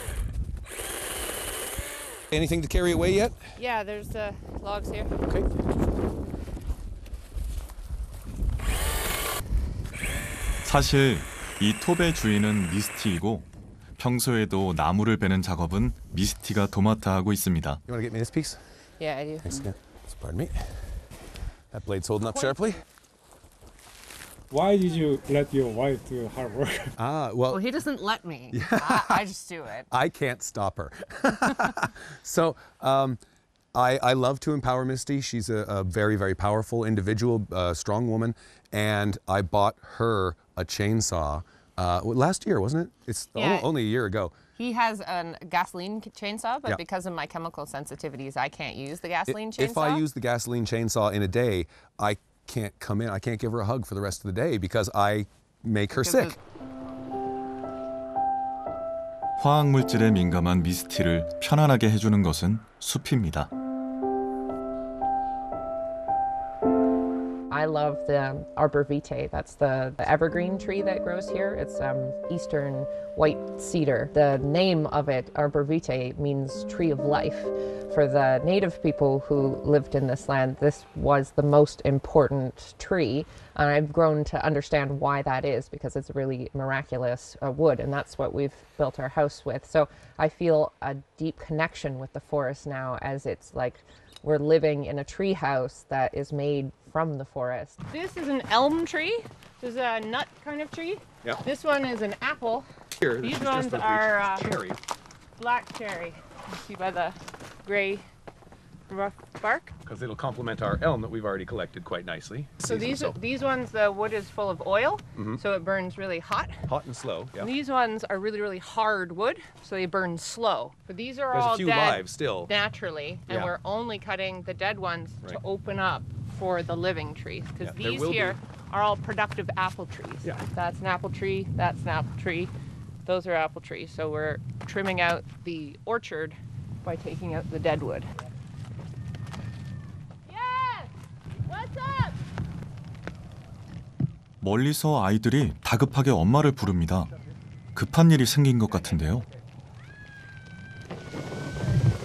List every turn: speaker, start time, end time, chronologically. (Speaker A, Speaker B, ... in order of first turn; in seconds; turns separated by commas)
Speaker A: 2.3-3.5, Speaker B: 3.6-5.3, Speaker C: 10.6-13.5, Speaker C: 14.0-17.8, Speaker A: 17.9-18.6, Speaker B: 19.0-19.7, Speaker A: 19.4-20.8, Speaker A: 21.7-22.8, Speaker B: 22.2-22.8, Speaker D: 24.5-26.9, Speaker A: 27.0-27.6, Speaker B: 27.5-29.9, Speaker A: 28.5-29.2, Speaker A: 29.9-33.2, Speaker A: 33.7-44.3, Speaker B: 43.3-43.7, Speaker B: 44.6-50.0, Speaker A: 49.2-56.4, Speaker B: 56.0-56.4, Speaker C: 59.4-63.5, Speaker B: 67.5-102.7, Speaker A: 103.0-104.8, Speaker B: 103.2-104.5, Speaker B: 105.4-108.0, Speaker B: 108.9-109.7, Speaker A: 109.8-113.2, Speaker B: 112.6-116.7, Speaker A: 115.1-115.4, Speaker A: 116.7-117.5, Speaker B: 117.4-132.5, Speaker A: 121.3-122.5, Speaker A: 123.3-123.5, Speaker A: 127.6-128.4, Speaker B: 133.0-138.1, Speaker B: 140.3-140.9, Speaker B: 141.4-142.1, Speaker C: 144.4-147.1, Speaker C: 147.8-149.2